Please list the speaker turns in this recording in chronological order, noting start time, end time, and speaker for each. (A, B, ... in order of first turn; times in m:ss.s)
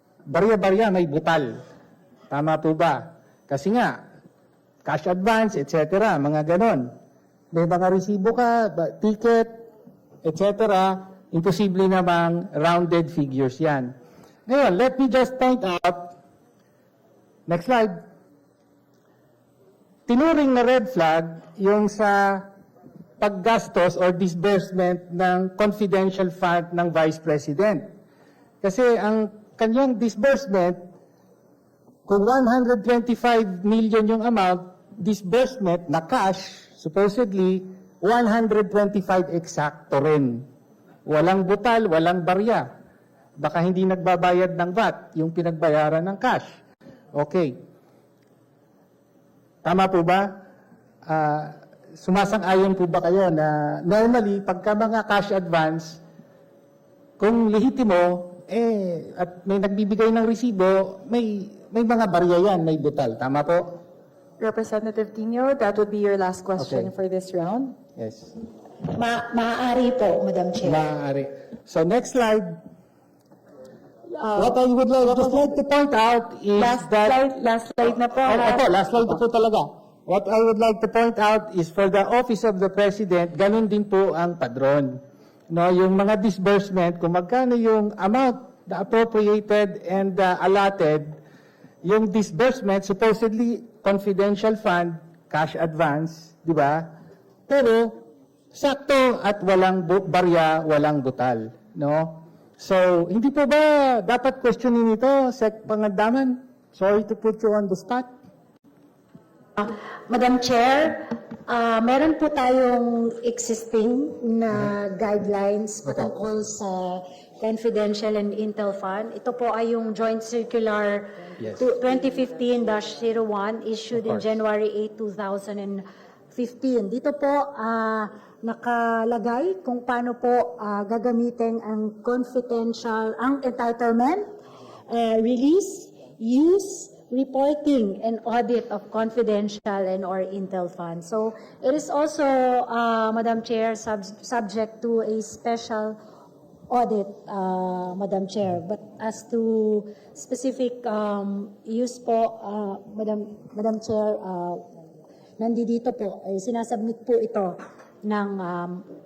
0:00.3-0:01.6 A
0:02.3-0:04.0 A
0:04.9-0:06.9 A
0:07.5-0:09.5 A
0:10.2-0:13.9 A
0:14.5-0:16.2 A
0:17.5-0:18.0 A
0:20.1-0:22.5 A
0:23.2-0:27.9 A
0:28.6-0:30.8 A
0:32.1-0:40.4 A
0:41.1-0:42.7 A
0:43.4-0:46.6 A
0:47.2-0:47.5 A
0:49.6-0:50.3 A
0:51.1-0:56.0 A
0:57.2-1:03.6 A
1:04.4-1:07.8 B
1:06.6-1:06.9 A
1:08.0-1:08.4 A
1:08.9-1:10.8 C
1:10.6-1:12.6 A
1:14.2-1:15.4 B
1:14.4-1:17.2 A
1:16.6-1:19.1 B
1:18.3-1:25.0 A
1:25.5-1:31.1 A
1:31.8-1:36.9 A
1:37.5-1:38.0 A
1:38.5-1:48.1 A
1:49.6-2:14.3 C
2:04.0-2:04.3 A
2:14.9-2:26.0 C
2:26.7-2:34.6 C
2:35.4-2:38.8 C